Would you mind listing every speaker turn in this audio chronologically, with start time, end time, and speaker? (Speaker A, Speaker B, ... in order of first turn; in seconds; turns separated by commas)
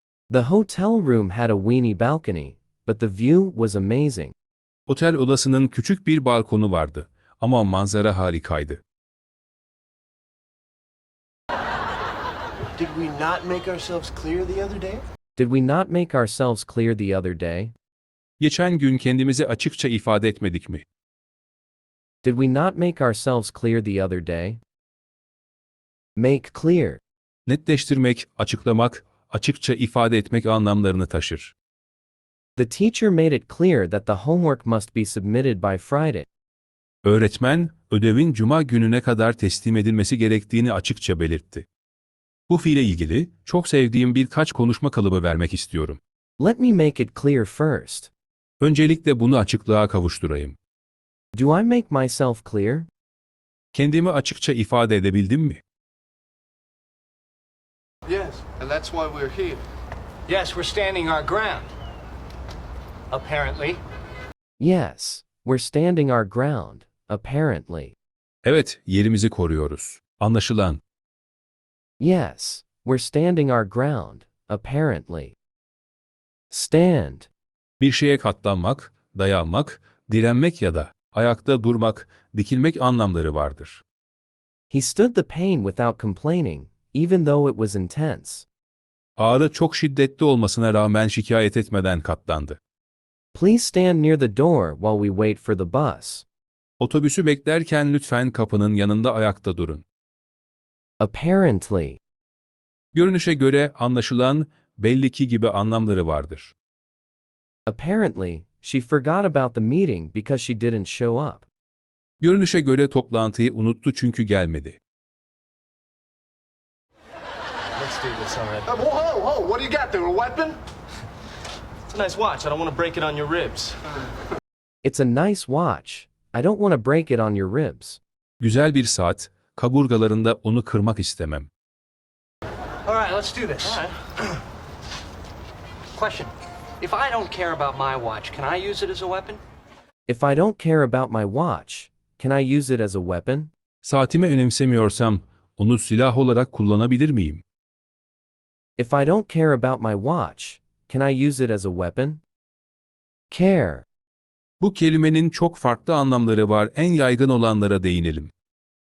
Speaker A: 0.3-4.3, Speaker B: 4.9-8.8, Speaker C: 12.7-15.1, Speaker A: 15.4-17.7, Speaker B: 18.4-20.8, Speaker A: 22.2-24.6, Speaker A: 26.1-27.0, Speaker B: 27.5-31.5, Speaker A: 32.6-36.3, Speaker B: 37.0-41.6, Speaker B: 42.5-46.0, Speaker A: 46.4-48.1, Speaker B: 48.6-50.6, Speaker A: 51.3-52.9, Speaker B: 53.7-55.6, Speaker D: 58.0-59.6, Speaker E: 60.3-61.7, Speaker E: 63.1-63.8, Speaker A: 64.6-67.9, Speaker B: 68.4-70.8, Speaker A: 72.0-75.3, Speaker A: 76.5-77.3, Speaker B: 77.8-83.8, Speaker A: 84.7-88.5, Speaker B: 89.2-92.6, Speaker A: 93.3-96.2, Speaker B: 96.8-99.8, Speaker A: 101.0-102.0, Speaker B: 102.9-106.5, Speaker A: 107.7-111.5, Speaker B: 112.2-114.8, Speaker F: 117.8-118.7, Speaker D: 118.7-120.6, Speaker F: 121.9-123.8, Speaker A: 124.8-128.0, Speaker B: 128.4-131.5, Speaker E: 132.8-133.8, Speaker F: 133.6-133.9, Speaker E: 135.9-139.4, Speaker A: 140.1-143.5, Speaker B: 143.8-147.4, Speaker A: 148.8-152.2, Speaker A: 153.3-153.8, Speaker B: 154.6-158.3